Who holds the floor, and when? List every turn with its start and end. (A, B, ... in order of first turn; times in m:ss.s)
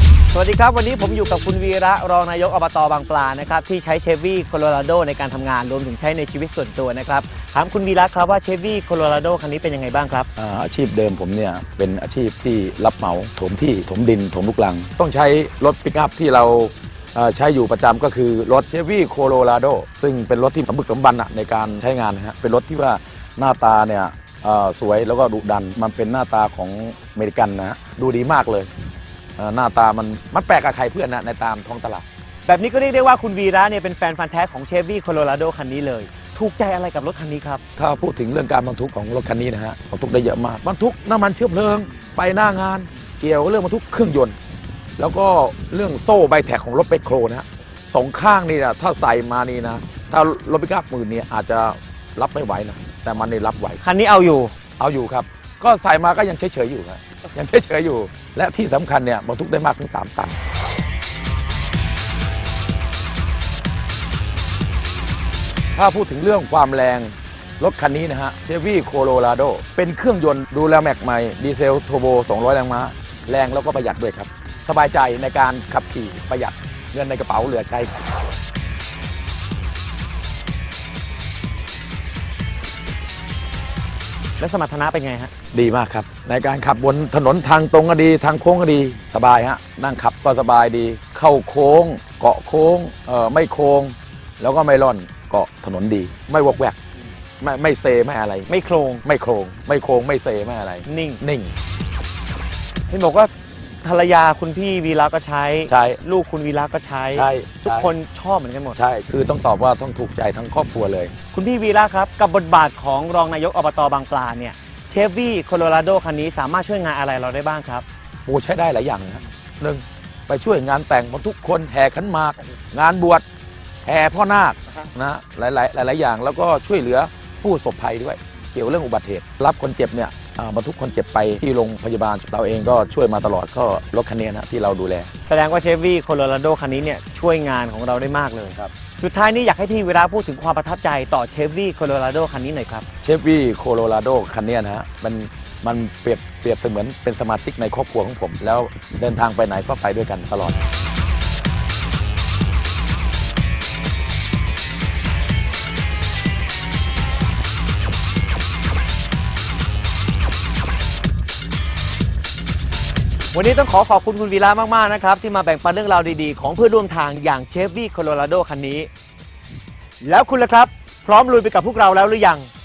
0:00.3-0:10.3 A
0:10.4-0:28.7 B
0:29.4-0:32.0 B
0:32.5-0:37.6 A
0:37.8-0:44.4 B
0:45.0-0:53.8 B
0:53.8-0:54.5 A
0:54.8-1:00.4 B
1:05.8-1:17.9 B
1:24.4-1:25.3 A
1:25.5-1:36.8 B
1:37.4-1:38.5 B
1:38.5-1:39.0 A
1:39.0-1:41.5 B
1:40.9-1:41.2 A
1:42.9-1:43.3 A
1:43.8-1:48.8 A
1:45.7-1:46.0 B
1:47.1-1:47.9 B
1:48.8-1:51.1 B
1:51.3-1:57.8 A
1:58.3-2:03.2 B
2:03.8-2:15.1 B
2:15.3-2:22.9 A
2:23.0-2:30.6 B
2:43.3-2:48.9 A
2:50.0-2:52.5 A